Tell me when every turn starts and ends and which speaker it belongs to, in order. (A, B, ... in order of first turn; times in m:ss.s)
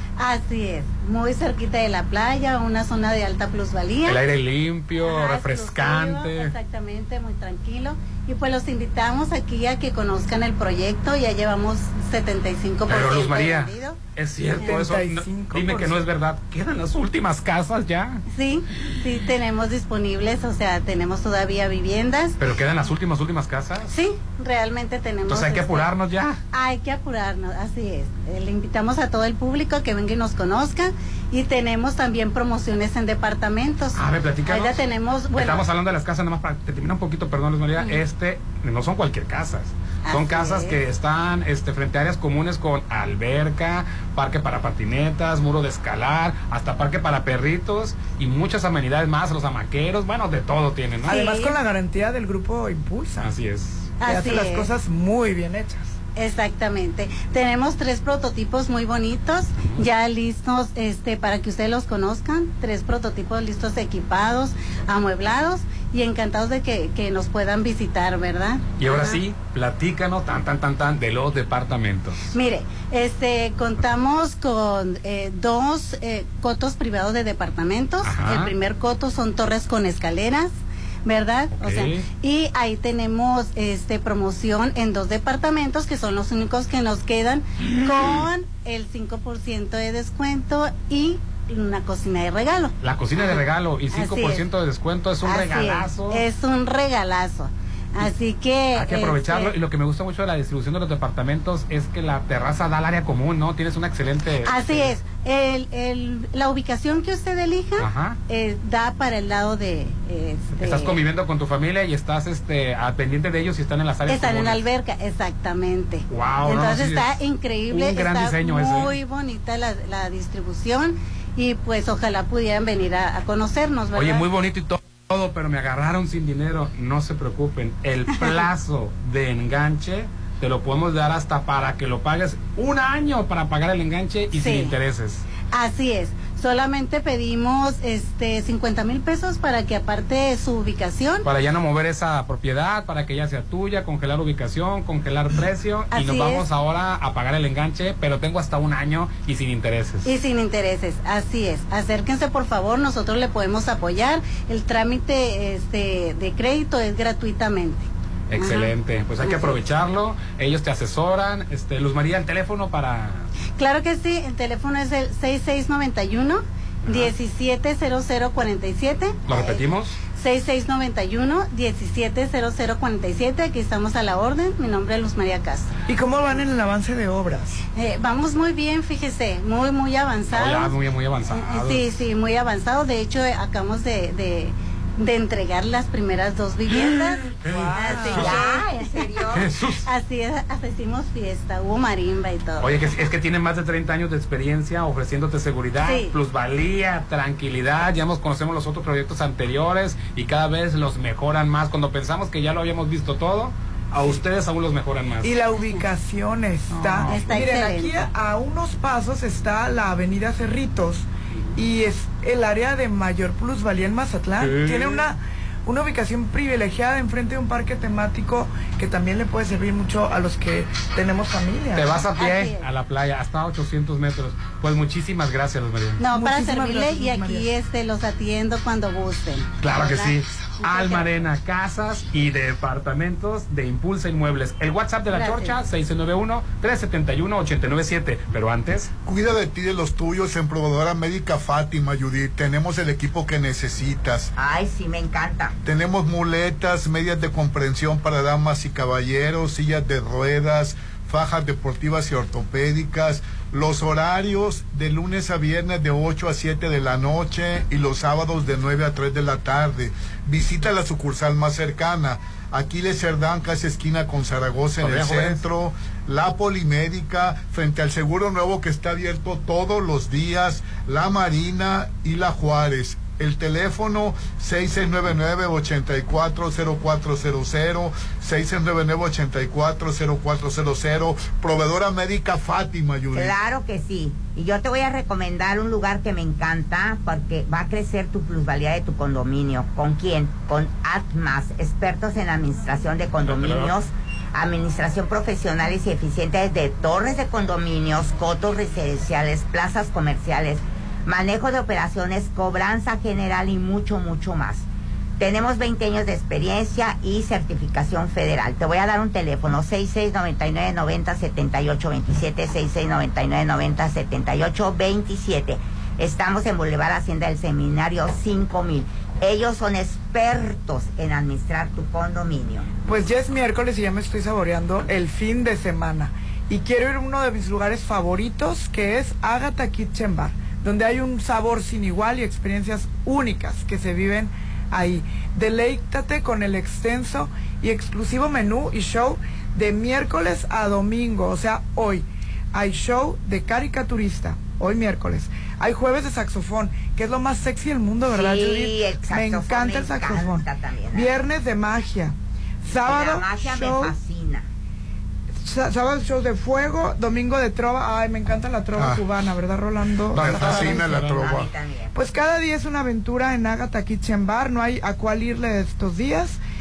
0:00.2-0:04.2 A
0:04.0-0:06.5 B
0:05.0-0:14.0 A
0:12.9-0:18.2 B
0:14.6-0:16.0 C
0:18.3-0:22.4 A
0:22.4-0:24.0 B
0:23.9-0:35.6 A
0:25.3-0:26.4 B
0:34.0-0:34.8 B
0:35.3-0:51.2 B
0:37.8-0:38.0 A
0:40.0-0:40.8 A
0:51.1-0:53.2 C
0:51.1-0:51.6 A
0:53.2-0:53.9 B
0:54.0-0:54.7 A
0:54.0-0:55.9 C
0:56.2-1:09.2 A
1:08.8-1:12.3 B
1:12.3-1:20.5 A
1:18.0-1:18.5 B
1:21.0-1:34.5 A
1:21.6-1:22.1 B
1:32.8-1:36.2 B
1:35.2-1:39.5 A
1:38.7-1:44.9 B
1:44.4-1:51.0 A
1:47.8-1:48.2 B
1:50.6-1:54.6 B
1:54.1-2:04.3 A
1:56.1-1:57.2 B
1:57.7-1:59.0 B
2:03.9-2:15.2 B
2:14.3-2:14.8 A
2:15.5-2:21.3 A
2:21.2-2:30.1 B
2:25.9-2:26.4 A
2:30.0-2:39.6 A
2:38.3-2:43.3 B
2:43.6-2:49.6 A
2:46.9-2:47.1 B
2:49.3-2:49.9 B
2:50.2-2:55.7 A
2:55.9-2:57.6 C
2:57.8-3:00.8 A
3:00.3-3:01.9 B
3:01.3-3:08.6 A
3:07.4-3:08.4 B
3:07.6-3:08.4 C
3:08.1-3:09.5 D
3:09.3-3:09.8 B
3:09.8-3:12.8 A
3:12.6-3:25.3 B
3:15.8-3:16.1 A
3:25.2-3:42.1 C
3:26.7-3:27.3 B
3:27.0-3:28.1 A
3:34.4-3:35.0 B
3:41.7-3:46.0 B
3:42.1-3:42.7 A
3:46.0-3:51.1 A
3:46.0-3:47.5 C
3:49.6-3:58.9 B
3:55.1-3:55.6 A
3:59.0-4:04.3 E
4:04.4-4:05.6 D
4:05.6-4:43.4 E
4:24.8-4:25.4 B
4:43.1-5:04.6 D
4:53.3-4:53.7 B
5:05.2-5:22.7 D
5:22.9-5:54.0 C
5:48.1-5:51.1 D
5:52.8-5:54.4 D
5:55.4-6:00.9 C
5:58.7-5:59.0 E
6:00.1-6:01.5 E
6:00.2-6:01.3 B
6:00.6-6:01.9 D
6:01.9-6:06.4 C